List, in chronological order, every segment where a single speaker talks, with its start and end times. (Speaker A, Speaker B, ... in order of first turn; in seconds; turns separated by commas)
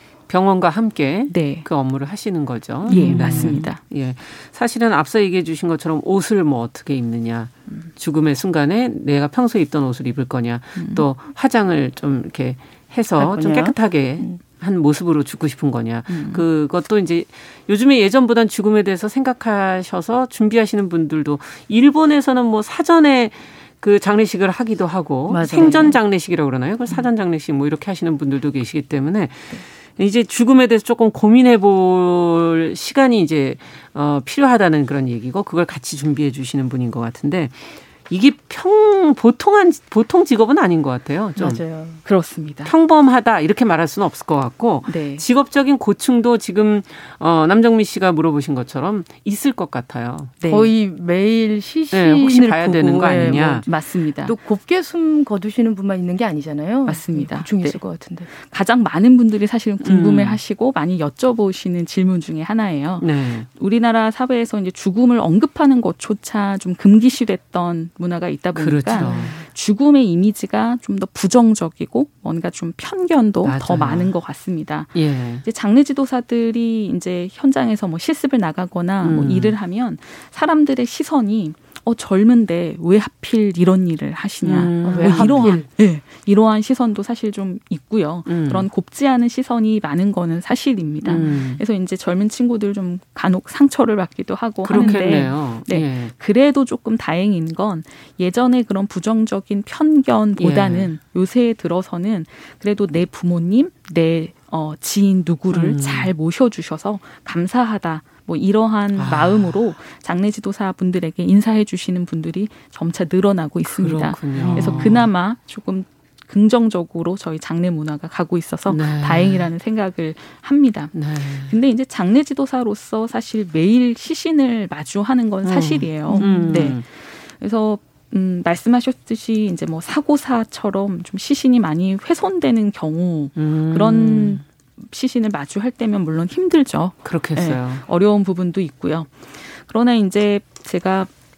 Speaker A: 0.3-41.6, Speaker B: 1.3-1.6, Speaker B: 2.8-3.8, Speaker C: 2.9-3.6, Speaker B: 10.8-11.1, Speaker C: 13.2-14.4, Speaker B: 16.1-16.4, Speaker C: 25.3-26.0, Speaker C: 41.4-42.0, Speaker B: 42.0-42.7, Speaker A: 42.6-50.3, Speaker B: 44.9-45.2, Speaker B: 50.4-50.7, Speaker C: 50.4-58.3, Speaker A: 51.9-53.7, Speaker B: 53.6-54.3, Speaker B: 56.9-141.1, Speaker A: 59.8-60.4, Speaker A: 63.0-63.5, Speaker A: 68.5-69.4, Speaker C: 68.9-69.4, Speaker A: 73.4-74.1, Speaker A: 74.9-75.4, Speaker A: 79.0-79.5, Speaker A: 84.4-85.6, Speaker C: 84.8-85.7, Speaker A: 88.3-88.7, Speaker A: 91.0-91.6, Speaker A: 94.6-96.1, Speaker A: 100.4-100.9, Speaker A: 105.5-106.1, Speaker A: 108.9-109.7, Speaker A: 113.7-115.1, Speaker C: 114.3-115.0, Speaker A: 118.7-119.5, Speaker A: 120.9-121.5, Speaker A: 125.4-126.8, Speaker C: 126.0-126.8, Speaker A: 133.3-134.4, Speaker A: 137.0-137.8